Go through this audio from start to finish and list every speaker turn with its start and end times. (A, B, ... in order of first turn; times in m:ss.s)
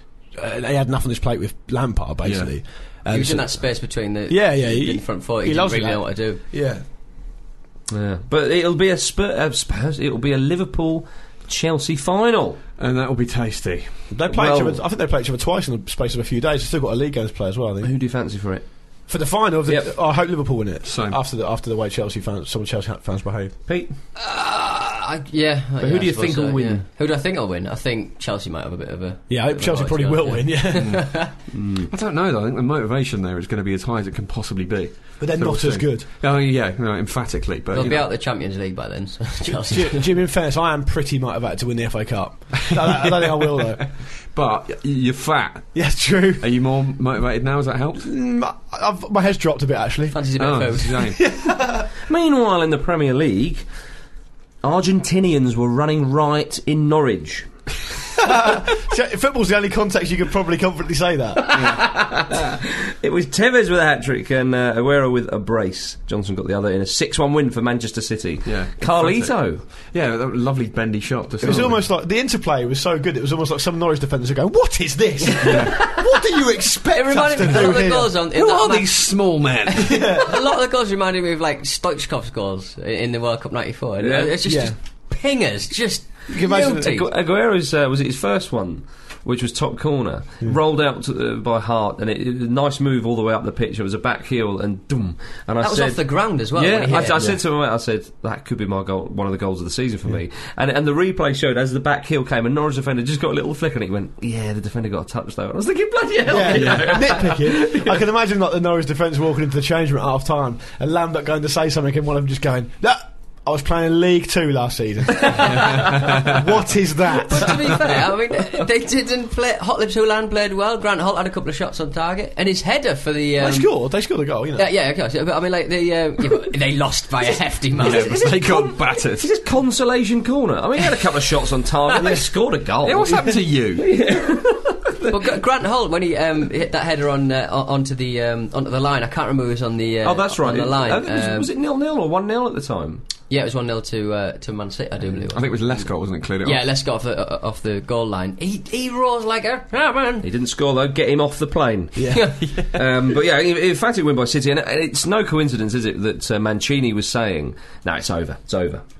0:00.3-0:06.8 A
0:02.2-0:02.5 B
0:03.1-0:06.4 C
0:07.9-0:12.6 D
0:12.8-0:14.1 B
0:14.1-0:17.9 A
0:14.3-0:14.8 D
0:17.8-0:18.6 D
0:19.1-0:23.6 A
0:19.6-0:19.9 D
0:20.8-0:21.2 B
0:23.7-0:23.9 D
0:24.2-0:31.3 C
0:25.8-0:26.8 D
0:29.3-0:31.1 A
0:30.8-0:31.2 B
0:31.5-0:31.9 D
0:31.9-0:38.1 B
0:35.2-0:36.1 A
0:37.7-0:40.1 C
0:39.5-0:43.8 A
0:42.9-0:48.1 B
0:45.7-0:46.5 A
0:48.0-0:50.2 A
0:50.1-0:51.0 C
0:50.4-0:51.2 B
0:50.9-0:51.9 A
0:52.1-0:53.6 D
0:54.6-0:57.5 D
0:58.2-1:01.6 A
1:01.4-1:09.6 D
1:01.5-1:01.9 B
1:08.4-1:11.8 B
1:11.4-1:18.2 A
1:15.5-1:15.8 B
1:15.5-1:15.8 C
1:16.9-1:27.0 C
1:18.3-1:20.1 B
1:19.8-1:20.3 A
1:24.0-1:24.3 D
1:24.4-1:24.8 A
1:26.3-1:27.0 A
1:26.6-1:48.0 D
1:35.6-1:37.3 C
1:46.2-1:57.7 A
1:46.5-1:47.0 B
1:55.4-1:56.5 B
1:57.2-2:03.7 C
2:03.4-2:04.7 A
2:04.5-2:08.2 C
2:07.8-2:09.3 B
2:07.9-2:15.1 D
2:12.0-2:12.3 A
2:12.8-2:13.9 B
2:15.1-2:21.5 C
2:20.0-2:23.0 D
2:23.3-2:30.2 C
2:25.3-2:26.6 B
2:30.2-2:38.8 D
2:31.9-2:32.7 A
2:32.1-2:32.5 C